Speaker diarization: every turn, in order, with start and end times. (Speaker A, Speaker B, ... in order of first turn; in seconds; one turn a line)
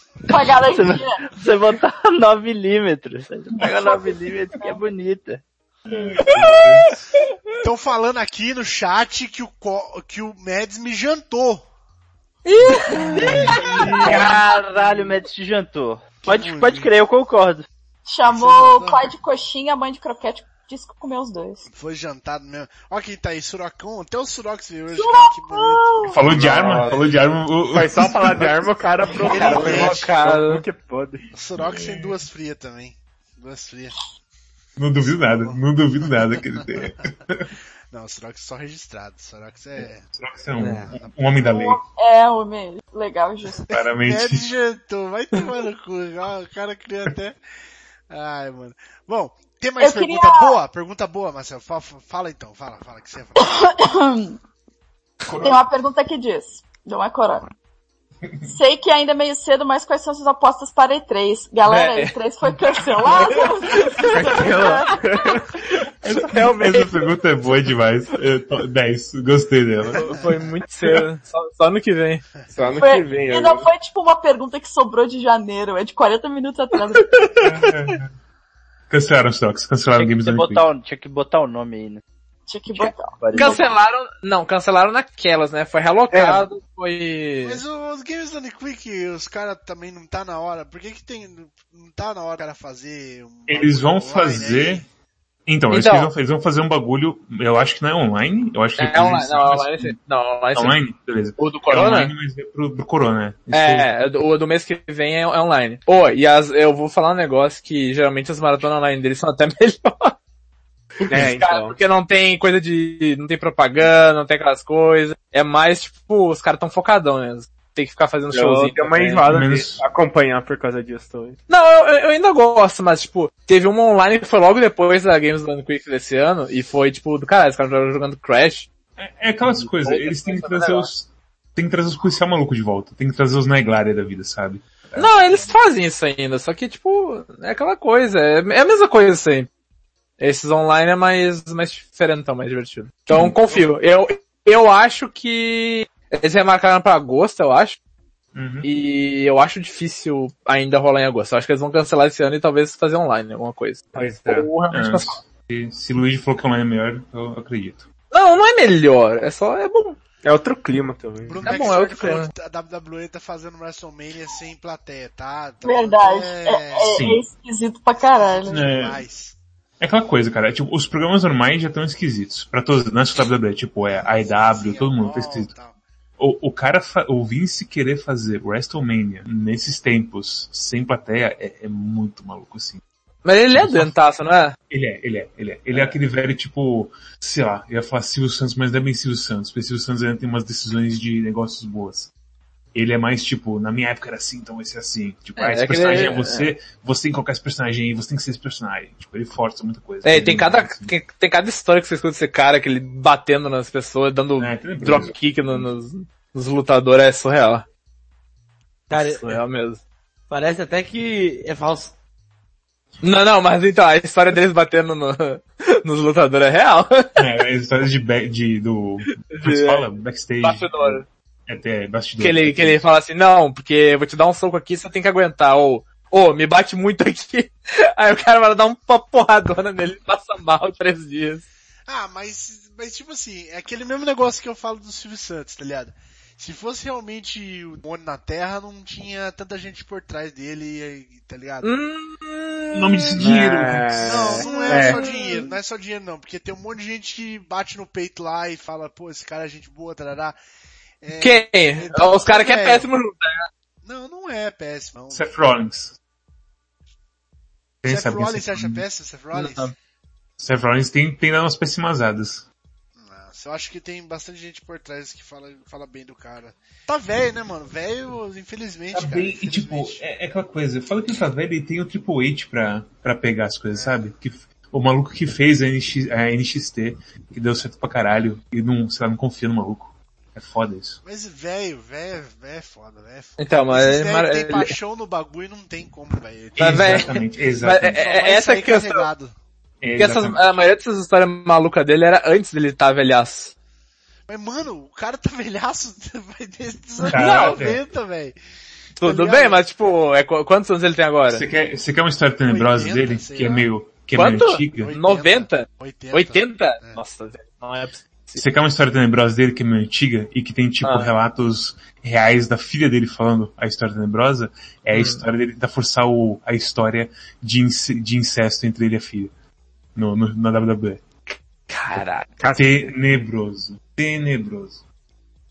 Speaker A: 0.3-1.2
Speaker B: 0.5-5.4
Speaker A: 3.7-4.8
Speaker C: 5.9-6.9
Speaker D: 7.6-11.7
Speaker A: 12.5-14.0
Speaker D: 12.9-14.2
Speaker C: 13.2-13.8
Speaker B: 13.8-17.7
Speaker D: 16.2-16.9
Speaker A: 18.1-21.6
Speaker D: 18.3-19.1
Speaker D: 21.7-26.1
Speaker A: 24.9-26.2
Speaker C: 26.1-28.6
Speaker E: 26.3-27.1
Speaker E: 27.7-31.2
Speaker F: 29.1-30.6
Speaker D: 29.2-30.1
Speaker D: 31.3-34.0
Speaker C: 31.6-32.1
Speaker C: 34.8-37.5
Speaker D: 35.0-36.9
Speaker D: 37.9-40.0
Speaker C: 40.1-41.8
Speaker G: 40.6-40.9
Speaker D: 41.0-41.5
Speaker A: 41.4-43.6
Speaker C: 43.7-44.5
Speaker D: 43.7-47.4
Speaker D: 48.1-53.5
Speaker A: 49.8-50.6
Speaker A: 53.4-54.4
Speaker C: 55.3-55.6
Speaker A: 55.4-57.5
Speaker A: 58.5-64.7
Speaker F: 61.7-62.2
Speaker F: 63.1-64.5
Speaker E: 64.1-65.4
Speaker E: 66.0-67.2
Speaker C: 66.1-70.0
Speaker F: 70.0-72.2
Speaker E: 70.0-71.0
Speaker E: 72.5-73.7
Speaker A: 72.8-77.3
Speaker C: 77.4-78.1
Speaker C: 78.9-80.7
Speaker B: 79.9-82.0
Speaker A: 82.5-83.7
Speaker B: 82.8-83.6
Speaker F: 83.3-87.6
Speaker E: 86.1-86.5
Speaker D: 87.4-94.9
Speaker C: 93.5-94.9
Speaker C: 95.5-100.0
Speaker F: 95.7-96.1
Speaker F: 98.8-100.8
Speaker C: 100.5-103.9
Speaker F: 101.4-102.1
Speaker F: 103.5-110.2
Speaker F: 111.0-119.3
Speaker E: 111.1-111.8
Speaker E: 118.3-121.4
Speaker C: 119.3-119.8
Speaker F: 121.5-128.7
Speaker C: 129.0-135.5
Speaker F: 129.5-130.9
Speaker F: 135.0-139.5
Speaker F: 140.2-147.8
Speaker C: 143.1-143.3
Speaker C: 148.3-148.7
Speaker F: 148.6-155.2
Speaker E: 153.9-154.5
Speaker C: 154.7-157.9
Speaker F: 158.1-160.0
Speaker E: 160.2-161.4
Speaker D: 161.2-167.0
Speaker F: 161.4-162.3
Speaker A: 165.6-168.6
Speaker C: 166.8-167.2
Speaker D: 168.0-169.4
Speaker C: 168.5-169.0
Speaker C: 169.8-175.5
Speaker D: 174.0-175.8
Speaker C: 176.2-182.8
Speaker F: 183.2-184.6
Speaker C: 183.5-183.9
Speaker C: 184.7-192.1
Speaker C: 192.8-200.9
Speaker F: 195.4-196.5
Speaker F: 200.1-207.7
Speaker C: 204.4-205.2
Speaker G: 208.9-209.4
Speaker F: 208.9-209.8
Speaker G: 210.3-211.9
Speaker F: 213.0-217.2
Speaker C: 217.2-222.9
Speaker F: 219.3-219.9
Speaker F: 220.4-221.1
Speaker F: 222.2-231.4
Speaker D: 231.9-241.7
Speaker F: 241.6-245.4
Speaker C: 242.7-244.1
Speaker E: 243.2-245.0
Speaker D: 244.0-250.4
Speaker D: 251.0-252.9
Speaker F: 251.2-253.5
Speaker D: 253.8-255.4
Speaker C: 255.1-255.9
Speaker C: 257.8-258.8
Speaker D: 257.9-259.7
Speaker F: 259.3-259.7
Speaker C: 260.4-262.5
Speaker D: 263.0-270.0
Speaker C: 269.0-281.0
Speaker D: 273.7-274.1
Speaker D: 281.0-287.2
Speaker F: 283.4-284.8
Speaker C: 286.6-288.0
Speaker F: 286.6-289.1
Speaker D: 287.8-289.3
Speaker C: 289.8-290.6
Speaker F: 290.0-293.5
Speaker D: 294.3-298.4
Speaker F: 297.0-297.6
Speaker C: 297.1-297.8
Speaker F: 299.0-301.4
Speaker D: 299.0-299.6
Speaker C: 301.3-304.9
Speaker D: 302.5-303.7
Speaker F: 304.1-308.4
Speaker D: 304.8-307.0
Speaker C: 308.4-319.3
Speaker F: 310.8-311.1
Speaker F: 314.9-315.2
Speaker C: 319.9-321.0
Speaker F: 321.7-322.4
Speaker E: 322.4-322.9
Speaker C: 322.6-324.8